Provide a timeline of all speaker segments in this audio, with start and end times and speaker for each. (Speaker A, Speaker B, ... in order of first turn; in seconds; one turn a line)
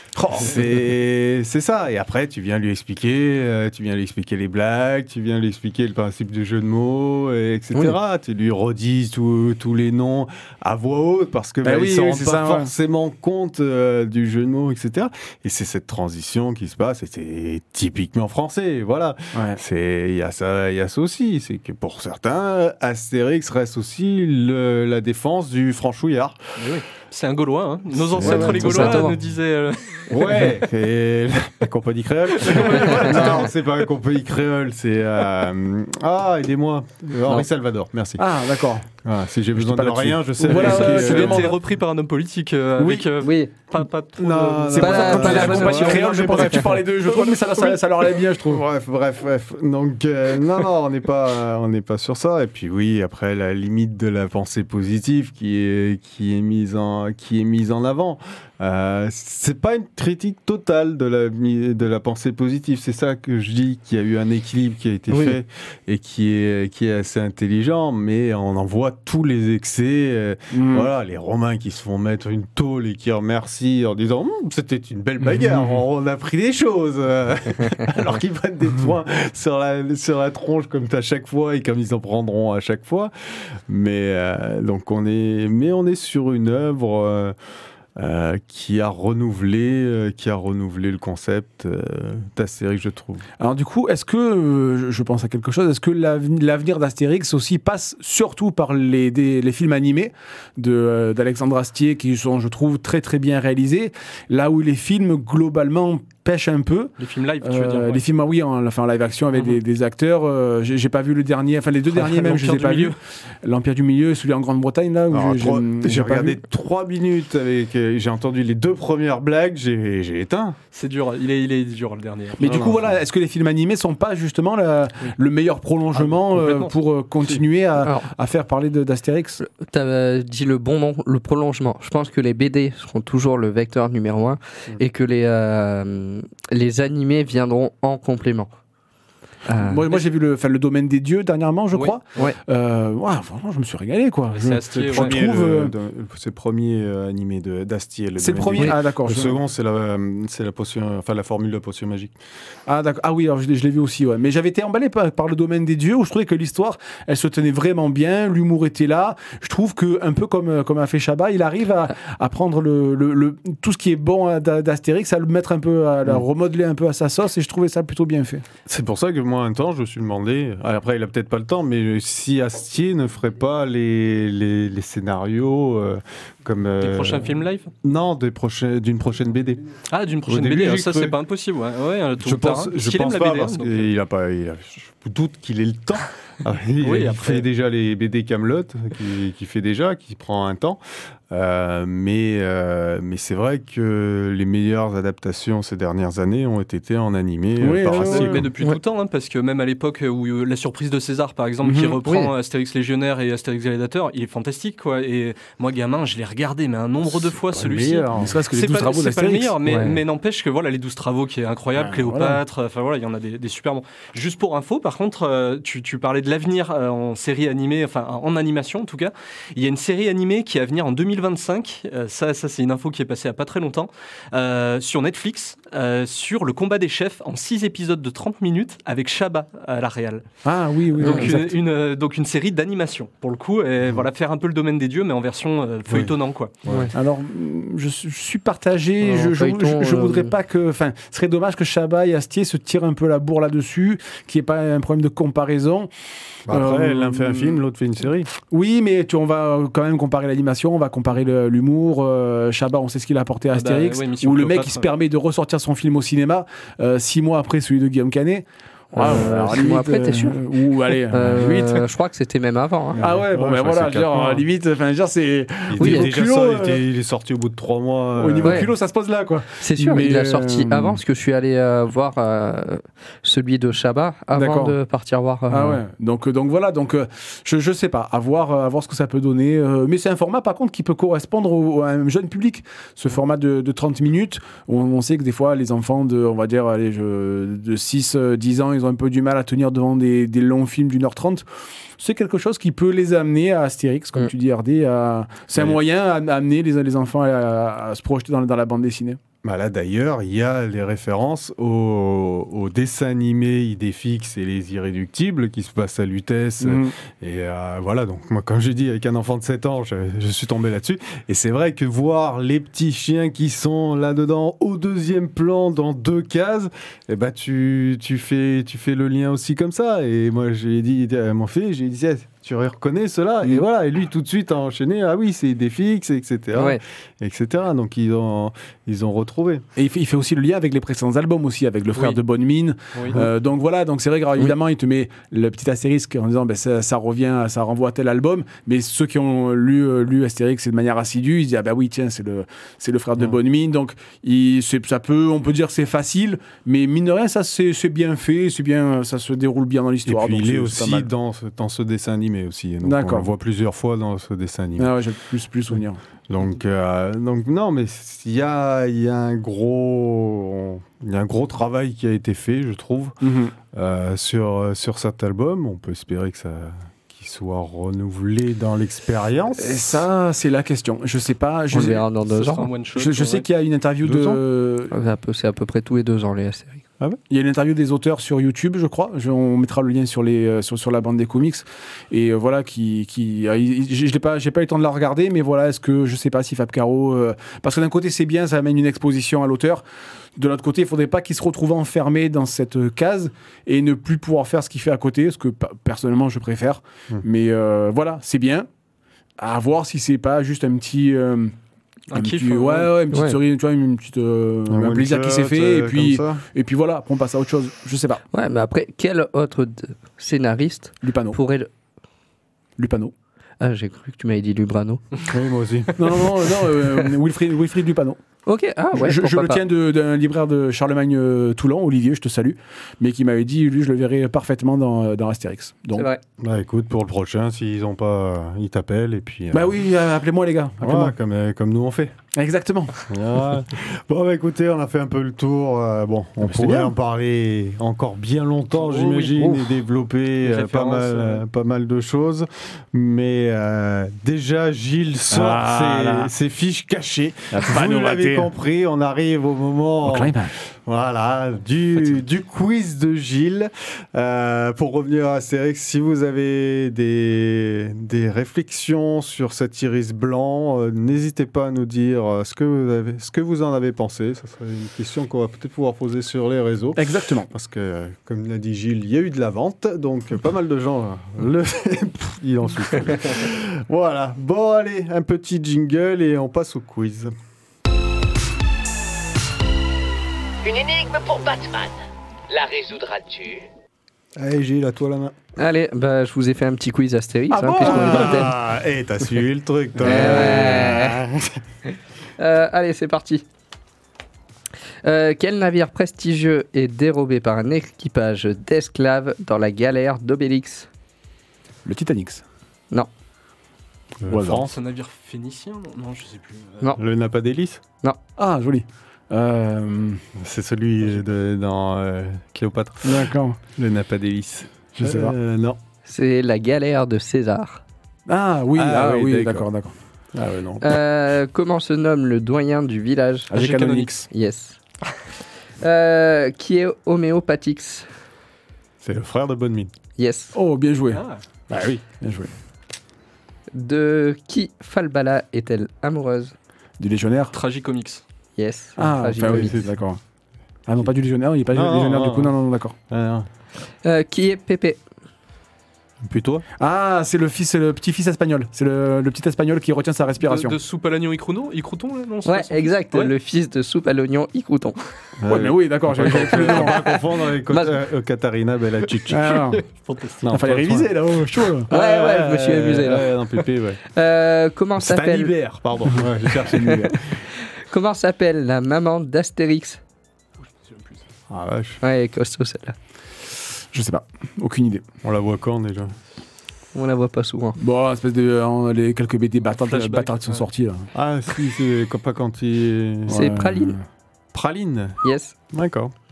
Speaker A: 0.2-0.6
Speaker B: 0.3-26.4
Speaker A: 11.6-12.7
Speaker A: 19.3-19.6
Speaker C: 26.6-30.5
Speaker B: 27.9-29.2
Speaker D: 28.3-29.1
Speaker A: 28.4-29.1
Speaker B: 30.1-41.5
Speaker C: 32.3-33.5
Speaker A: 32.5-33.5
Speaker A: 38.2-38.9
Speaker A: 39.6-41.5
Speaker C: 40.4-46.0
Speaker A: 42.8-43.0
Speaker D: 43.2-43.5
Speaker B: 44.2-47.8
Speaker A: 44.7-48.6
Speaker D: 44.8-46.6
Speaker B: 48.4-87.3
Speaker D: 65.1-65.4
Speaker A: 70.5-70.9
Speaker B: 88.0-93.2
Speaker A: 93.4-116.4
Speaker C: 107.0-108.0
Speaker C: 109.3-109.6
Speaker C: 111.9-113.0
Speaker B: 115.1-120.6
Speaker C: 120.7-122.8
Speaker A: 122.4-129.4
Speaker B: 122.4-123.0
Speaker C: 125.9-126.7
Speaker D: 127.8-128.1
Speaker D: 129.4-138.5
Speaker D: 139.4-139.8
Speaker A: 139.6-145.7
Speaker C: 141.7-142.0
Speaker C: 144.3-145.2
Speaker B: 144.7-152.2
Speaker A: 148.2-149.3
Speaker A: 152.7-168.4
Speaker B: 168.7-181.2
Speaker C: 176.8-177.7
Speaker C: 179.9-183.9
Speaker B: 182.2-198.5
Speaker C: 186.8-187.4
Speaker A: 197.6-198.5
Speaker C: 197.9-230.2
Speaker A: 201.6-202.0
Speaker D: 202.0-202.3
Speaker B: 207.0-208.4
Speaker A: 208.2-209.9
Speaker D: 209.6-210.0
Speaker A: 211.8-212.4
Speaker A: 230.4-231.5
Speaker C: 230.9-236.5
Speaker D: 231.0-231.3
Speaker B: 235.9-236.9
Speaker D: 236.7-236.9
Speaker A: 236.9-245.9
Speaker D: 239.0-240.3
Speaker B: 246.5-248.3
Speaker A: 246.5-247.6
Speaker A: 248.5-261.8
Speaker C: 253.5-254.9
Speaker D: 258.9-260.4
Speaker D: 261.1-263.0
Speaker B: 262.9-264.4
Speaker A: 263.0-266.8
Speaker B: 265.7-268.7
Speaker D: 265.8-266.1
Speaker A: 268.2-271.0
Speaker D: 268.4-268.7
Speaker D: 269.6-275.8
Speaker A: 274.3-274.8
Speaker A: 275.5-291.4
Speaker A: 292.0-299.2
Speaker B: 295.5-295.8
Speaker B: 299.4-329.6
Speaker A: 306.6-306.9
Speaker D: 326.5-326.8
Speaker A: 329.8-351.1
Speaker B: 350.1-354.9
Speaker A: 352.8-353.3
Speaker A: 354.8-356.0
Speaker B: 356.3-363.2
Speaker A: 363.2-363.5
Speaker B: 363.7-370.0
Speaker A: 369.6-372.0
Speaker D: 371.7-372.7
Speaker C: 372.3-373.4
Speaker A: 372.9-374.9
Speaker B: 374.0-374.4
Speaker D: 374.9-376.8
Speaker A: 377.3-389.8
Speaker A: 390.4-398.7
Speaker A: 399.4-401.5
Speaker C: 402.1-402.9
Speaker A: 402.1-408.2
Speaker D: 403.1-403.4
Speaker B: 404.7-406.4
Speaker D: 408.3-411.7
Speaker A: 411.0-411.4
Speaker A: 412.8-413.1
Speaker D: 413.6-415.0
Speaker B: 415.3-416.4
Speaker A: 416.0-418.2
Speaker D: 418.4-419.6
Speaker A: 418.9-426.1
Speaker D: 425.9-426.2
Speaker B: 426.4-429.8
Speaker A: 429.5-431.1
Speaker B: 430.8-432.1
Speaker A: 432.3-433.2
Speaker B: 433.1-477.3
Speaker A: 436.4-436.9
Speaker C: 439.0-439.3
Speaker A: 439.2-439.6
Speaker C: 440.4-441.4
Speaker A: 445.3-446.3
Speaker A: 447.5-448.5
Speaker A: 450.0-450.5
Speaker A: 466.9-467.5
Speaker E: 480.6-481.9
Speaker E: 482.5-483.6
Speaker B: 484.4-485.3
Speaker D: 485.6-488.5
Speaker A: 487.5-488.5
Speaker B: 487.7-491.6
Speaker D: 490.0-491.2
Speaker A: 490.1-490.9
Speaker D: 492.4-493.4
Speaker D: 495.0-500.9
Speaker A: 501.8-502.4
Speaker B: 504.2-504.7
Speaker A: 504.3-504.6
Speaker C: 504.4-507.0
Speaker B: 507.0-507.8
Speaker A: 508.4-510.2
Speaker B: 510.4-515.8
Speaker A: 513.0-513.6
Speaker A: 515.0-515.3
Speaker D: 516.1-517.8
Speaker A: 518.3-519.9
Speaker B: 518.7-519.7
Speaker B: 520.3-521.0
Speaker D: 520.8-523.6
Speaker A: 523.5-524.3
Speaker C: 523.5-524.1
Speaker D: 524.2-524.8
Speaker D: 525.8-528.1
Speaker B: 529.0-529.9
Speaker D: 530.1-530.5
Speaker A: 530.5-532.5
Speaker C: 531.1-531.4
Speaker B: 531.7-532.0
Speaker D: 533.7-536.5
Speaker A: 537.0-537.5
Speaker C: 537.5-538.2
Speaker D: 538.5-539.8
Speaker A: 539.0-540.2
Speaker B: 539.4-540.0
Speaker A: 540.9-542.9
Speaker B: 541.7-542.5
Speaker B: 543.1-543.5
Speaker D: 544.0-545.0
Speaker B: 546.2-546.6
Speaker A: 546.8-550.8
Speaker C: 550.4-553.3
Speaker D: 552.5-555.0
Speaker B: 555.4-559.7
Speaker A: 555.5-557.2
Speaker C: 556.5-556.9
Speaker D: 557.7-557.9
Speaker A: 559.3-559.8
Speaker C: 559.4-560.5
Speaker B: 560.4-561.1
Speaker A: 560.5-561.9
Speaker D: 561.9-563.3
Speaker B: 561.9-564.0
Speaker D: 564.0-565.5
Speaker B: 565.0-567.4
Speaker A: 565.3-567.1
Speaker D: 567.5-570.0
Speaker B: 571.5-572.0
Speaker D: 572.0-572.9
Speaker A: 573.9-575.0
Speaker B: 575.2-576.1
Speaker D: 576.9-577.8
Speaker A: 577.8-581.1
Speaker C: 579.8-580.6
Speaker B: 581.1-583.5
Speaker A: 583.3-584.0
Speaker D: 583.3-584.0
Speaker B: 584.5-585.2
Speaker D: 585.2-585.5
Speaker B: 585.7-586.1